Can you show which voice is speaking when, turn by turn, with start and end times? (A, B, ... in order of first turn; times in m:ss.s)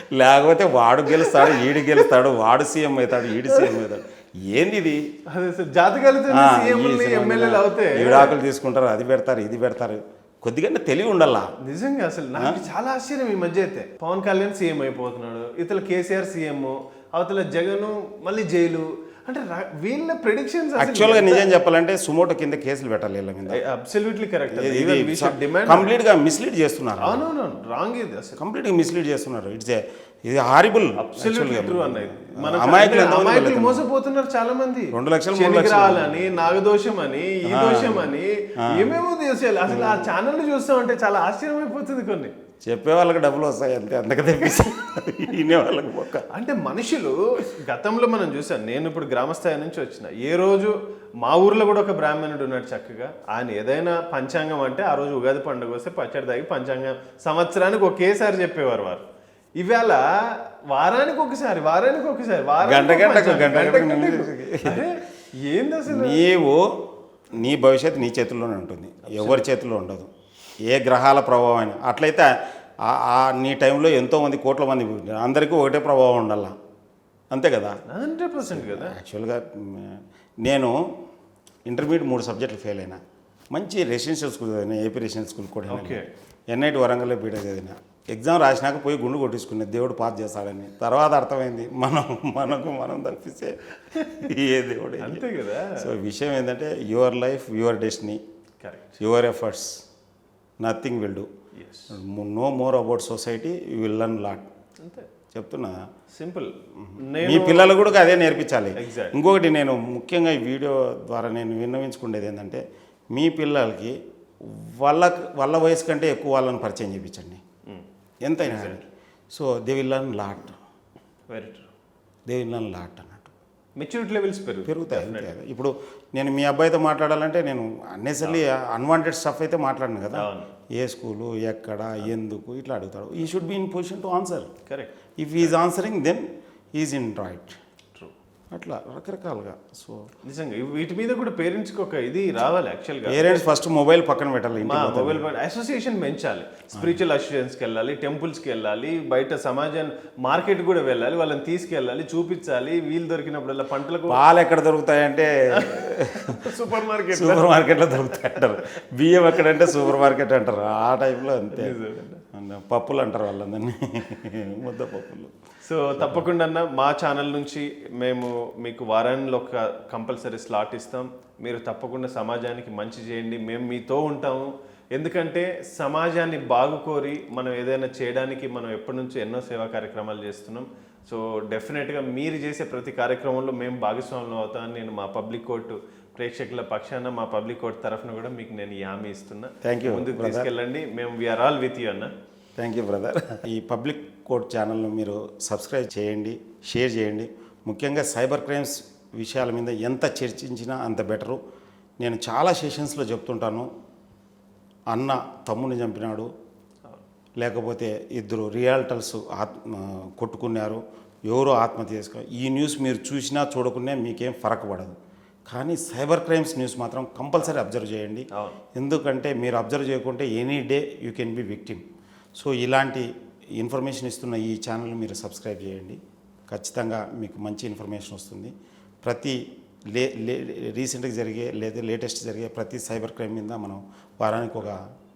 0:00.1-0:05.0 A
0:01.1-0:02.0 B
0:03.4-0:03.8 B
0:05.3-0:08.4 B
0:06.3-0:11.5 A
0:11.6-0:21.5 B
0:20.8-0:23.6 A
0:23.5-0:25.9 B
0:24.5-0:27.3 A
0:27.0-0:28.4 B
0:28.4-0:33.9 A
0:31.0-0:42.3 B
0:34.9-0:36.5 A
0:37.5-0:38.1 A
0:38.7-0:39.0 A
0:39.7-0:40.1 A
0:42.6-0:46.3 A
0:46.3-0:59.0 B
0:59.6-1:06.2 B
1:02.6-1:04.9 A
1:05.9-1:10.1 A
1:09.0-1:09.5 B
1:10.7-1:12.3 A
1:12.8-1:16.6 A
1:17.3-1:17.8 A
1:17.9-1:19.0 B
1:18.5-1:20.7 A
1:21.7-1:23.0 A
1:23.5-1:38.2 A
1:25.7-1:26.0 B
1:35.0-1:35.9 B
1:38.6-1:39.0 B
1:39.0-1:39.8 A
1:40.6-1:41.3 A
1:41.6-1:42.0 B
1:41.9-1:44.4 A
1:44.8-1:45.1 B
1:45.3-1:45.8 A
1:46.1-1:47.9 B
1:46.8-1:57.4 A
1:48.8-1:49.2 B
1:58.2-2:00.6 A
1:58.4-1:58.8 B
2:01.3-2:01.7 B
2:02.3-2:03.3 A
2:03.8-2:05.3 B
2:04.7-2:14.5 A
2:10.1-2:10.5 B
2:14.7-2:15.6 B
2:15.2-2:16.2 A
2:16.8-2:17.6 A
2:18.5-2:20.1 A
2:20.2-2:23.5 B
2:23.0-2:25.2 A
2:24.6-2:34.2 B
2:34.1-2:36.4 A
2:35.5-2:38.2 B
2:37.1-2:41.8 A
2:39.5-2:39.8 B
2:41.5-2:42.2 B
2:42.3-2:45.3 A
2:45.6-3:12.1 B
2:46.0-2:46.3 A
3:09.6-3:10.5 A
3:12.6-3:21.4 A
3:22.0-3:23.7 A
3:24.9-3:26.3 A
3:27.4-3:34.9 A
3:35.5-3:41.8 A
3:42.3-3:43.1 A
3:43.6-3:46.0 A
3:46.5-3:48.5 A
3:49.0-3:49.4 A
3:49.9-3:54.8 A